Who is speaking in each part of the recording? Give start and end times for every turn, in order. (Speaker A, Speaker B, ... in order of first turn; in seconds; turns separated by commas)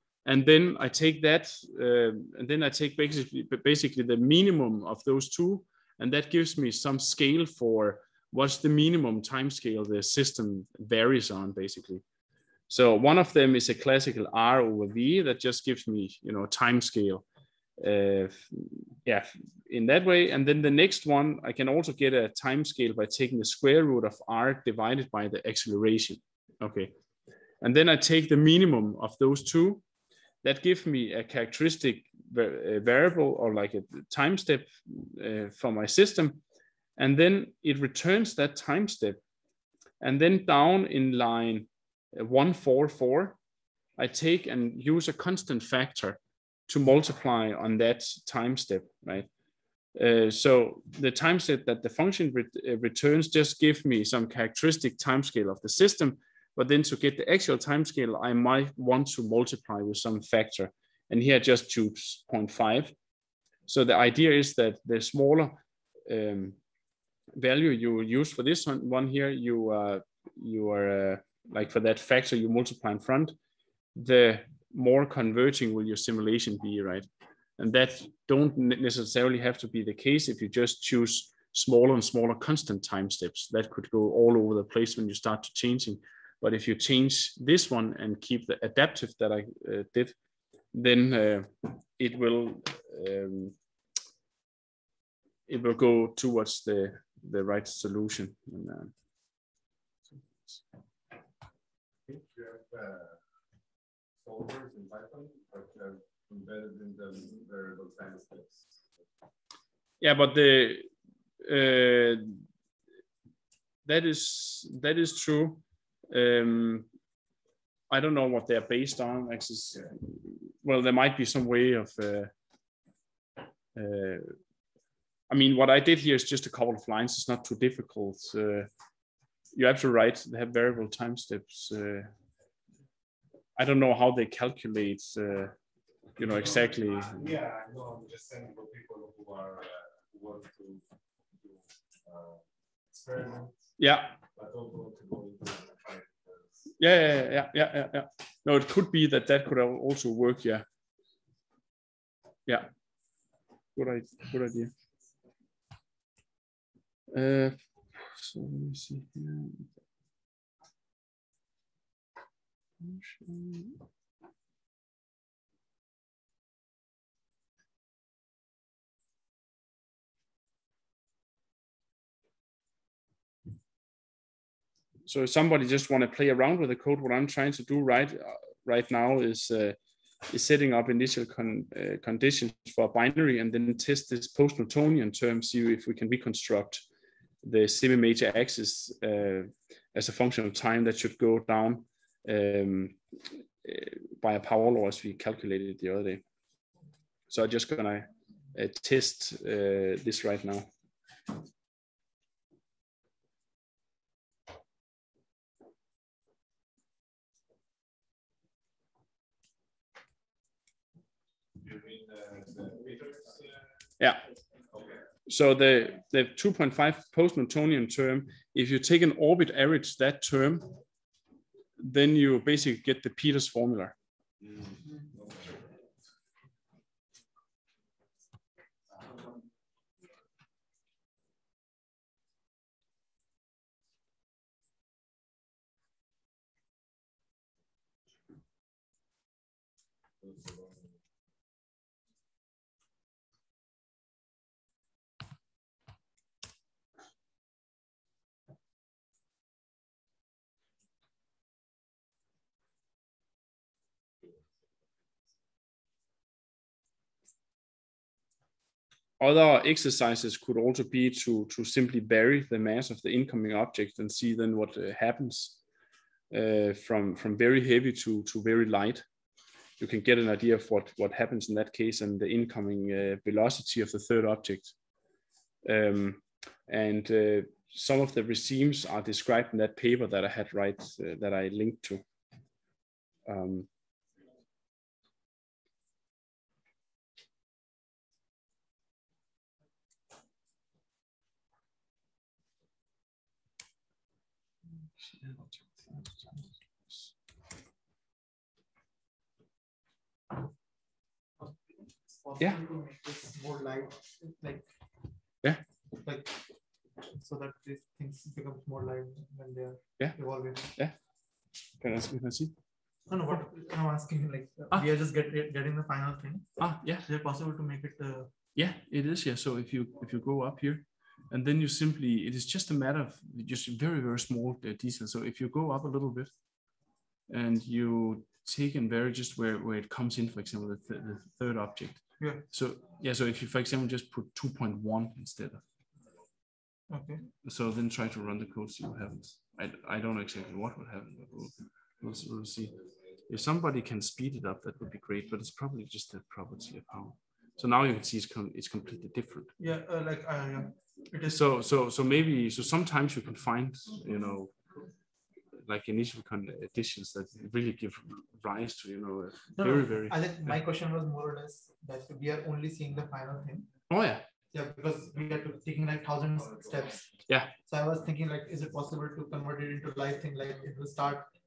Speaker A: 0.3-12.0, Speaker A: 12.7-17.2, Speaker A: 17.8-26.9, Speaker A: 27.6-29.8, Speaker A: 30.4-36.4, Speaker A: 37.0-39.2, Speaker A: 40.0-43.4, Speaker A: 44.0-49.3, Speaker A: 50.0-63.0, Speaker A: 63.7-66.6, Speaker A: 67.4-73.4, Speaker A: 74.0-77.1, Speaker A: 77.6-90.2, Speaker A: 90.7-93.6, Speaker A: 95.5-98.9, Speaker B: 102.1-103.2, Speaker B: 104.2-108.7, Speaker A: 110.0-110.9, Speaker A: 111.4-112.4, Speaker A: 113.9-116.9, Speaker A: 117.9-122.3, Speaker A: 123.8-124.3, Speaker A: 125.3-128.7, Speaker A: 129.6-132.1, Speaker A: 133.6-135.6, Speaker A: 136.2-137.2, Speaker B: 137.1-140.8, Speaker B: 141.4-143.5, Speaker A: 143.8-144.2, Speaker B: 144.3-146.7, Speaker A: 146.8-150.7, Speaker A: 153.8-154.7, Speaker A: 157.1-159.7, Speaker A: 162.8-163.8, Speaker A: 175.1-179.8, Speaker A: 180.3-186.9, Speaker A: 187.4-193.0, Speaker A: 193.6-196.2, Speaker A: 197.3-200.7, Speaker B: 211.6-213.5, Speaker A: 215.3-220.7, Speaker A: 221.8-223.9, Speaker B: 225.2-225.4, Speaker B: 240.2-241.0, Speaker A: 259.2-265.6, Speaker A: 266.3-269.0, Speaker A: 269.8-274.7, Speaker A: 275.6-282.0, Speaker A: 283.3-283.7, Speaker A: 295.0-297.1, Speaker C: 302.2-304.7, Speaker C: 306.0-306.3, Speaker C: 307.0-310.7, Speaker A: 310.0-310.9, Speaker A: 311.8-312.5, Speaker C: 313.1-318.3, Speaker A: 316.6-317.1, Speaker A: 318.6-326.3, Speaker A: 327.3-335.6, Speaker C: 332.2-332.4, Speaker C: 336.9-337.3, Speaker A: 337.4-342.8, Speaker A: 343.3-349.5, Speaker C: 349.6-351.5, Speaker A: 351.3-354.6, Speaker A: 355.6-360.6, Speaker C: 359.6-363.7, Speaker A: 363.9-364.2, Speaker C: 364.5-367.1, Speaker C: 367.7-371.3